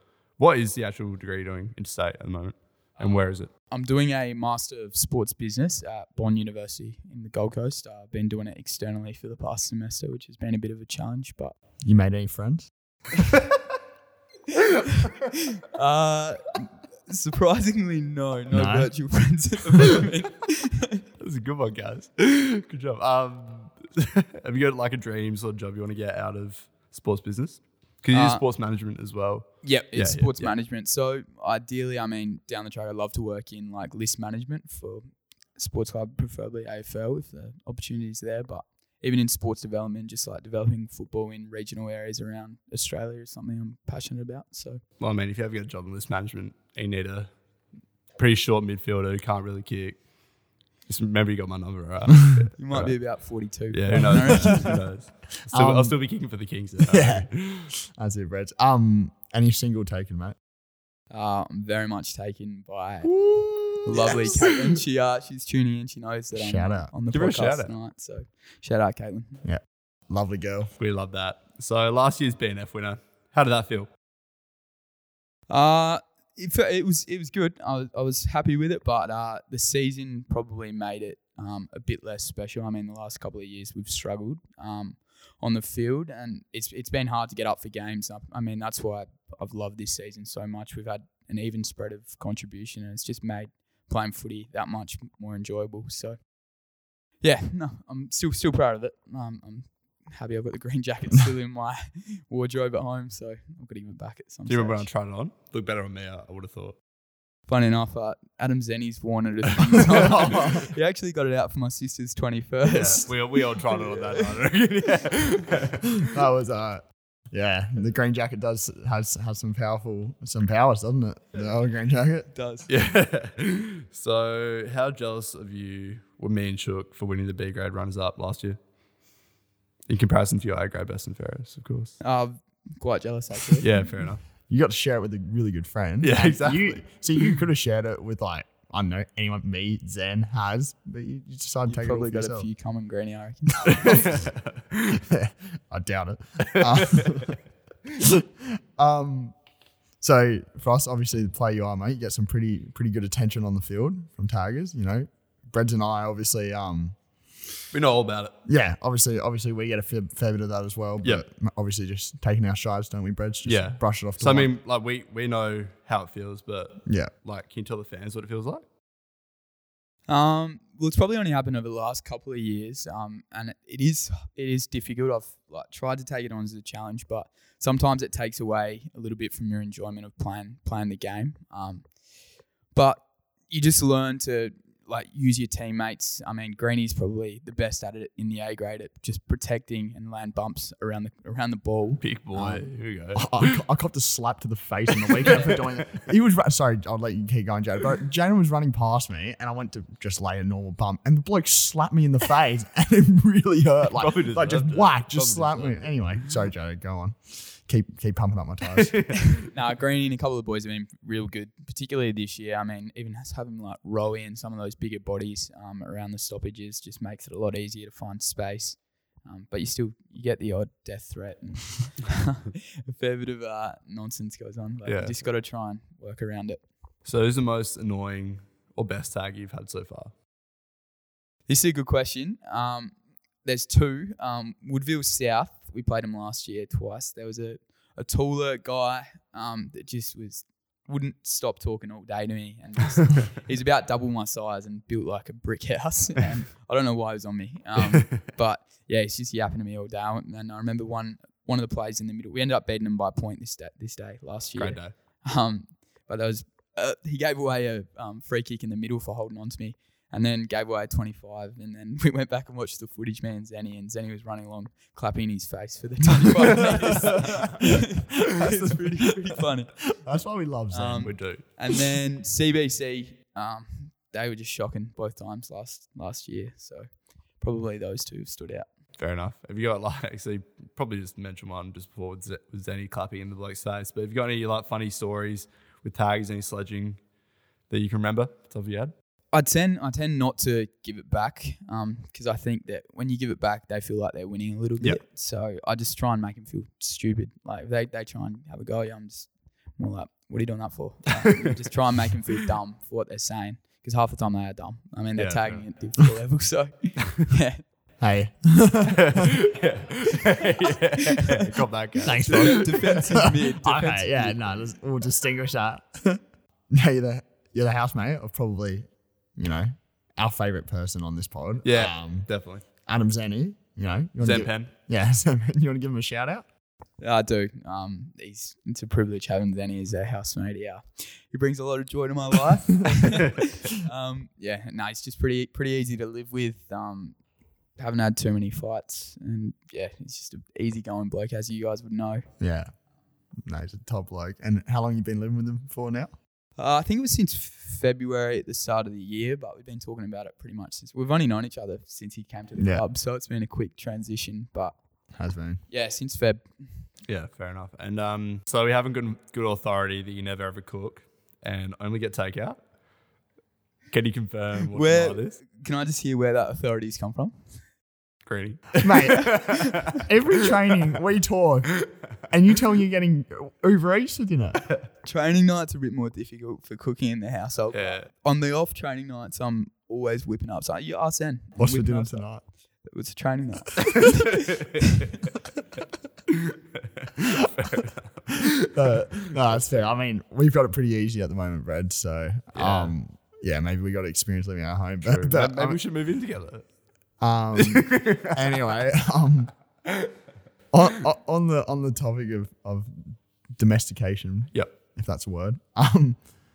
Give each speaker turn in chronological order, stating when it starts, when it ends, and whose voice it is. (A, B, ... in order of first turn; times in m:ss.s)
0:00.4-0:03.5 A
0:03.7-0:11.6 B
0:11.8-0:12.7 C
0:14.8-0:21.0 B
0:18.5-0:18.9 C
0:21.2-0:30.5 A
0:28.1-0:28.4 B
0:29.6-0:44.8 B
0:45.0-0:47.3 A
0:48.2-0:50.0 A
0:50.9-0:57.7 A
0:52.6-0:54.8 B
0:53.9-0:54.7 C
0:55.5-0:56.0 C
0:56.9-1:00.4 C
1:01.1-1:03.2 B
1:03.0-1:04.4 C
1:03.8-1:09.4 B
1:04.0-1:04.3 A
1:06.4-1:06.9 C
1:07.1-1:07.7 A
1:09.4-1:10.7 C
1:10.8-1:13.9 A
1:15.5-1:36.3 B
1:37.2-1:44.9 B
1:44.5-1:46.8 A
1:47.5-1:54.4 B
1:49.9-1:50.7 C
1:52.6-1:55.9 A
1:56.0-2:02.3 C
2:02.3-2:02.7 B
2:02.7-2:08.6 A
2:09.9-2:12.0 A
2:12.0-2:13.7 B
2:13.6-2:14.2 A
2:14.5-2:22.5 C
2:16.0-2:16.8 A
2:21.7-2:24.2 B
2:23.7-2:25.0 A
2:23.7-2:24.2 C
2:24.9-2:27.4 C
2:26.5-2:27.3 A
2:28.0-2:29.4 C
2:30.0-2:37.0 C
2:37.7-2:38.3 A
2:38.5-2:44.5 C
2:43.5-2:48.6 A
2:46.8-2:47.1 C
2:50.1-3:02.0 B
3:02.7-3:12.0 B
3:12.0-3:13.6 A
3:13.2-3:29.0 C
3:15.2-3:15.6 A
3:24.0-3:25.9 A
3:28.8-3:29.3 A
3:29.3-3:46.6 B
3:44.8-3:45.2 A
3:47.0-3:50.1 A
3:51.5-4:30.0 B
4:07.9-4:08.2 A
4:14.6-4:14.9 A
4:30.0-4:31.1 C
4:30.7-4:38.7 B
4:31.0-4:31.4 A
4:39.0-4:47.0 A
4:47.7-4:48.9 A
4:49.3-5:07.6 B
5:05.2-5:05.6 A
5:08.0-5:09.3 C
5:08.9-5:13.0 A
5:12.0-5:14.4 B
5:12.0-5:16.2 C
5:16.7-5:22.3 C
5:21.6-5:22.6 A
5:22.8-5:26.5 C
5:24.2-5:24.7 A
5:27.0-5:37.2 B
5:37.8-5:42.3 B
5:42.4-5:42.7 C
5:43.4-5:46.1 C
5:46.6-5:54.8 B
5:52.6-5:52.8 C
5:55.2-5:55.6 C
5:55.7-5:56.9 B
5:57.1-6:02.6 A
6:03.9-6:05.4 A
6:04.7-6:07.5 B
6:08.2-6:10.1 A
6:08.8-6:14.6 C
6:09.2-6:09.5 B
6:15.0-6:22.3 B
6:17.7-6:18.1 A
6:21.6-6:22.4 C
6:22.8-6:25.1 B
6:23.9-6:24.6 A
6:26.3-6:29.3 A
6:28.7-6:35.8 C
6:32.5-6:32.9 A
6:35.0-6:36.7 A
6:37.2-6:39.5 C
6:37.5-6:38.6 A
6:39.9-6:40.1 A
6:40.7-6:46.2 C